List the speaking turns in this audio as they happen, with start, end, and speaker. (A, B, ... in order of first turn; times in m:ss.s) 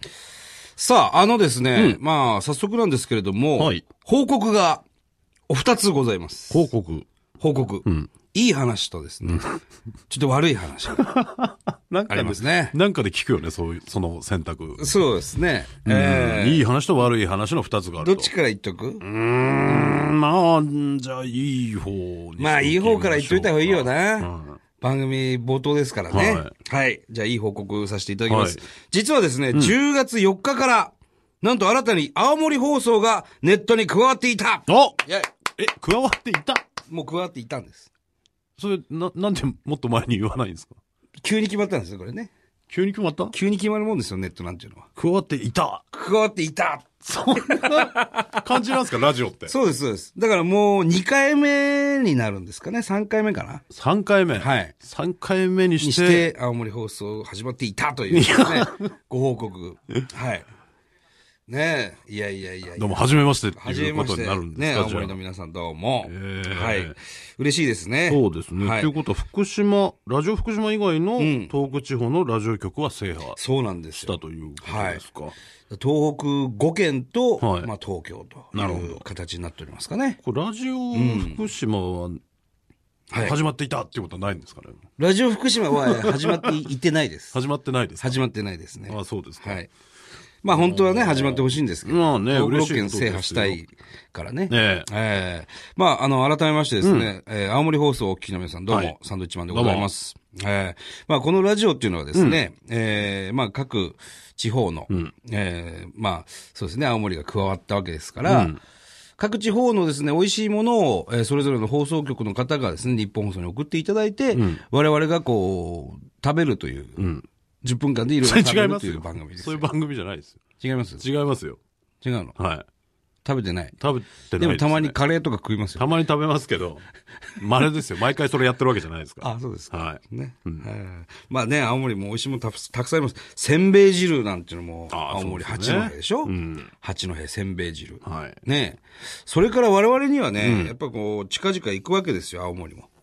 0:00.8-0:04.8 A
0:03.6-0:03.8 B
0:05.5-0:06.7 A
0:06.5-0:07.1 B
0:07.4-0:09.5 A
0:07.8-0:08.1 B
0:09.3-0:09.6 B
0:10.1-0:11.0 A
0:10.9-0:14.8 B
0:12.1-0:12.7 A
0:14.8-0:16.6 A
0:15.8-0:18.3 B
0:18.0-0:19.0 A
0:19.0-0:24.6 B
0:22.4-0:35.3 A
0:26.1-0:26.5 B
0:28.3-0:28.6 B
0:34.7-0:35.0 B
0:35.6-0:36.6 B
0:36.9-0:37.9 A
0:38.6-0:40.8 B
0:41.2-0:42.3 A
0:42.7-0:43.3 B
0:43.3-0:44.9 A
0:45.0-0:45.8 B
0:45.9-0:48.4 A
0:47.0-0:49.5 B
0:49.5-0:53.6 A
0:53.7-0:56.3 B
0:54.4-0:54.7 A
0:55.8-1:00.5 A
0:58.1-0:58.9 B
1:01.5-1:03.0 A
1:02.8-1:05.2 B
1:03.6-1:08.9 A
1:06.0-1:06.9 B
1:08.1-1:13.4 B
1:11.2-1:11.5 A
1:13.4-1:15.0 A
1:13.9-1:15.3 B
1:15.7-1:20.2 A
1:17.4-1:17.7 B
1:18.5-1:19.0 B
1:20.2-1:22.2 B
1:20.9-1:21.5 A
1:23.1-1:23.4 A
1:23.2-1:24.8 B
1:25.0-1:27.4 A
1:25.7-1:26.5 B
1:27.3-1:28.2 B
1:28.0-1:29.7 A
1:28.9-1:29.6 B
1:30.4-1:48.5 A
1:30.5-1:33.6 B
1:34.5-1:34.9 B
1:36.8-1:37.1 B
1:38.7-1:38.9 B
1:39.5-1:39.9 B
1:48.2-1:48.6 B
1:49.2-1:57.0 A
1:54.3-1:54.6 B
1:57.0-1:57.2 B
1:57.6-1:59.7 A
1:58.2-2:00.4 B
2:00.6-2:01.0 A
2:01.0-2:01.6 B
2:02.0-2:02.4 A
2:02.4-2:02.6 B
2:03.2-2:03.7 A
2:03.8-2:05.0 B
2:04.4-2:05.9 A
2:05.8-2:06.8 B
2:07.4-2:10.6 B
2:09.2-2:22.9 A
2:14.9-2:16.7 B
2:18.0-2:18.4 B
2:20.4-2:20.7 B